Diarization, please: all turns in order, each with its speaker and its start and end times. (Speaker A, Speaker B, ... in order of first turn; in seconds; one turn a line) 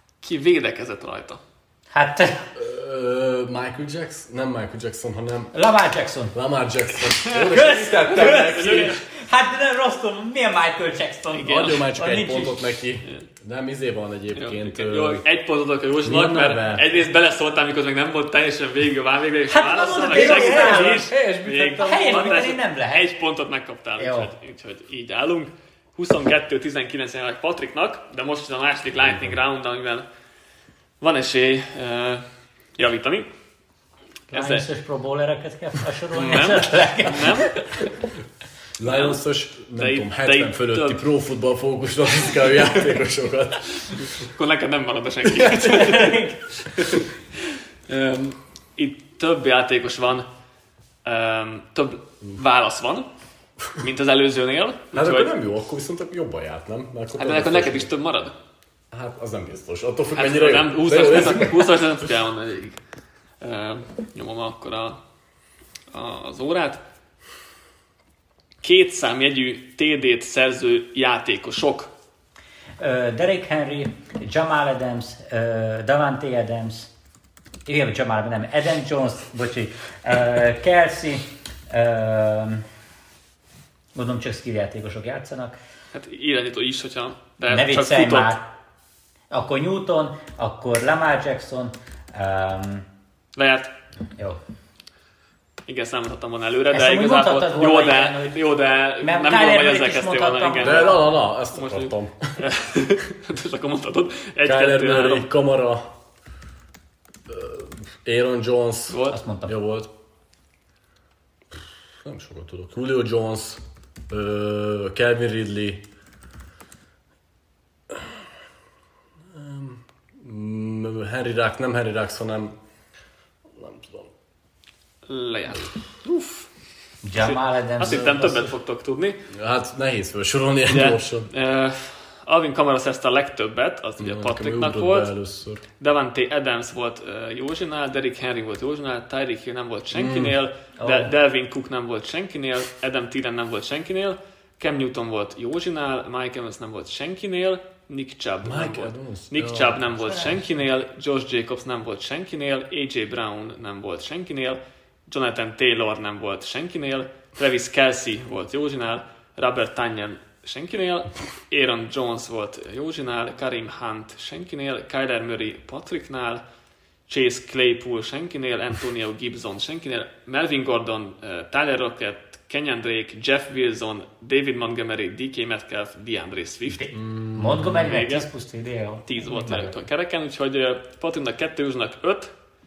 Speaker A: 0.2-1.4
Speaker B: 1.9-2.5
Speaker C: 2.6-5.5
Speaker B: 5.5-6.4
Speaker C: 6.3-9.0
Speaker B: 7.4-12.6
Speaker A: 8.2-9.0
Speaker A: 11.3-11.8
Speaker C: 11.4-15.2
Speaker A: 14.3-30.1
Speaker C: 16.0-16.9
Speaker B: 19.5-23.1
Speaker C: 19.9-22.5
Speaker B: 24.0-24.3
Speaker C: 29.0-29.4
Speaker A: 31.0-32.2
Speaker A: 32.8-33.3
Speaker B: 34.3-37.8
Speaker A: 34.3-34.7
Speaker A: 36.1-37.7
Speaker C: 38.8-44.0
Speaker A: 38.8-39.2
Speaker A: 39.8-41.0
Speaker A: 44.2-47.0
Speaker B: 45.6-46.4
Speaker A: 47.9-50.3
Speaker A: 51.0-53.1
Speaker A: 53.8-55.3
Speaker C: 54.9-57.9
Speaker A: 57.2-58.4
Speaker C: 58.9-61.7
Speaker A: 60.1-62.8
Speaker A: 63.4-65.0
Speaker A: 65.9-66.8
Speaker A: 68.6-71.9
Speaker B: 72.8-76.9
Speaker B: 77.7-82.7
Speaker B: 83.9-85.6
Speaker A: 85.9-88.4
Speaker B: 87.5-88.5
Speaker B: 89.3-92.9
Speaker A: 93.3-93.7
Speaker A: 95.7-101.0
Speaker B: 96.7-98.4
Speaker B: 99.0-101.0
Speaker C: 100.6-102.3
Speaker A: 101.5-105.3
Speaker C: 104.4-105.9
Speaker C: 107.3-109.9
Speaker A: 108.9-109.2
Speaker B: 109.1-109.5
Speaker C: 111.6-115.9
Speaker C: 117.9-118.2
Speaker C: 119.3-122.6
Speaker C: 123.5-124.1
Speaker A: 125.1-126.5
Speaker B: 127.0-128.5
Speaker A: 127.2-129.2
Speaker C: 129.3-131.3
Speaker A: 130.7-135.1
Speaker C: 134.0-135.6
Speaker A: 135.8-166.4
Speaker C: 139.9-140.4
Speaker B: 140.8-141.1
Speaker C: 148.4-149.8
Speaker B: 150.1-150.4
Speaker A: 167.1-176.9
Speaker B: 176.8-179.8
Speaker C: 176.9-177.9
Speaker A: 177.7-178.3
Speaker A: 179.1-182.3